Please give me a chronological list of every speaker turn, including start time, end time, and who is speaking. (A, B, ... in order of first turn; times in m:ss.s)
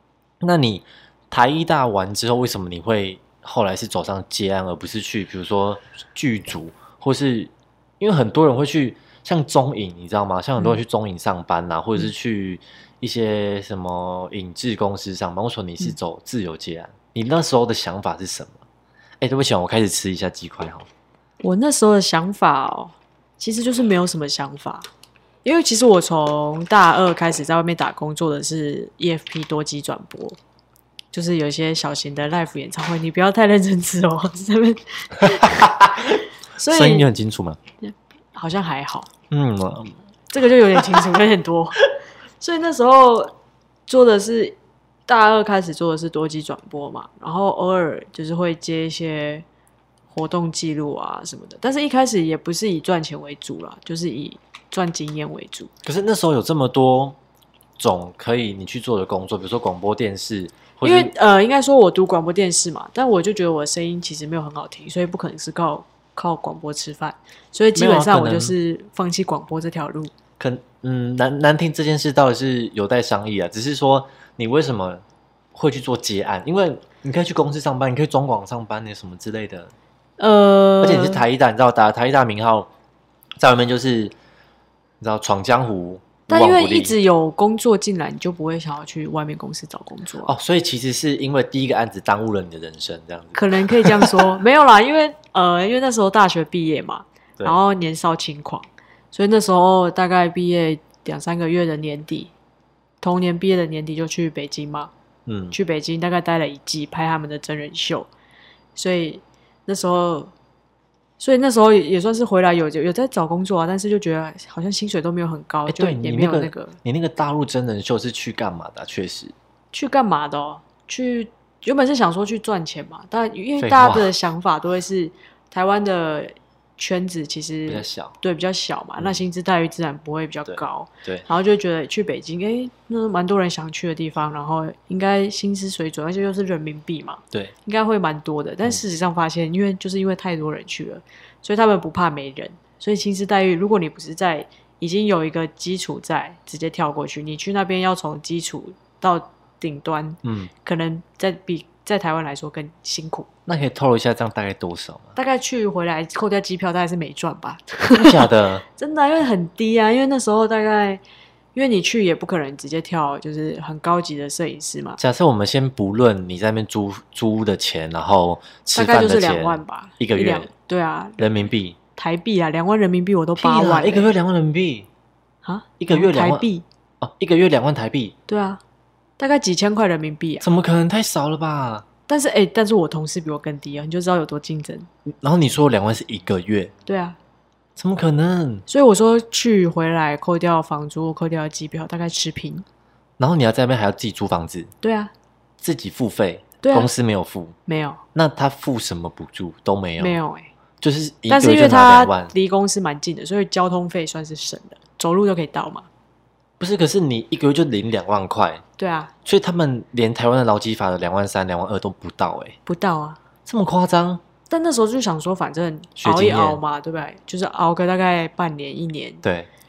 0:00.4-0:18.6 A
0:19.2-0:20.9 A
0:21.4-0:24.9 B
0:25.4-0:30.4 B
0:31.1-0:35.7 B
0:35.5-0:37.6 A
0:36.6-0:37.1 B
0:37.8-0:39.1 B
0:39.3-0:40.0 A
0:40.3-0:41.8 B
0:42.4-0:43.3 B
0:43.9-0:44.6 B
0:45.1-0:49.4 B
0:50.1-0:55.7 B
0:55.8-0:57.2 A
0:57.8-1:01.1 A
1:00.8-1:10.1 B
1:07.8-1:08.6 A
1:10.4-1:15.0 A
1:15.5-1:19.7 A
1:20.2-1:21.2 B
1:20.8-1:22.7 A
1:23.4-1:24.1 A
1:25.0-1:27.0 A
1:26.3-1:30.3 B
1:30.2-1:34.4 A
1:33.3-1:42.3 B
1:43.0-1:44.9 B
1:45.3-1:45.6 A
1:45.5-1:48.1 B
1:48.8-1:50.3 B
1:51.2-1:56.8 B
1:55.7-1:59.3 A
1:59.7-2:33.3 B
2:03.6-2:04.1 A
2:07.7-2:08.2 A
2:10.5-2:11.3 A
2:30.2-2:30.5 A
2:33.5-2:35.2 A
2:35.2-2:41.0 B
2:37.9-2:38.6 A
2:41.5-2:45.0 B
2:45.0-2:50.5 A
2:48.8-2:51.3 B
2:51.2-2:51.8 A
2:52.0-2:54.1 B
2:53.4-2:54.9 A
2:55.4-2:56.6 B
2:55.8-2:56.5 A
2:57.0-2:58.2 A
2:58.3-2:58.6 B
2:59.2-3:00.5 B
3:00.4-3:01.8 A
3:02.1-3:04.9 B
3:05.1-3:06.7 A
3:06.8-3:07.2 B
3:07.8-3:08.7 A
3:08.7-3:12.6 B
3:13.2-3:14.7 A
3:14.8-3:15.1 B
3:15.6-3:17.6 A
3:16.6-3:16.9 B
3:17.7-3:18.0 B
3:18.2-3:20.2 A
3:20.0-3:20.5 B
3:20.8-3:22.3 A
3:21.3-3:25.9 B
3:26.6-3:28.6 A
3:28.8-3:29.1 B
3:29.2-3:32.6 A
3:32.7-3:33.2 B
3:33.5-3:34.2 A
3:34.5-3:39.2 B
3:36.0-3:36.6 A
3:39.2-3:39.5 A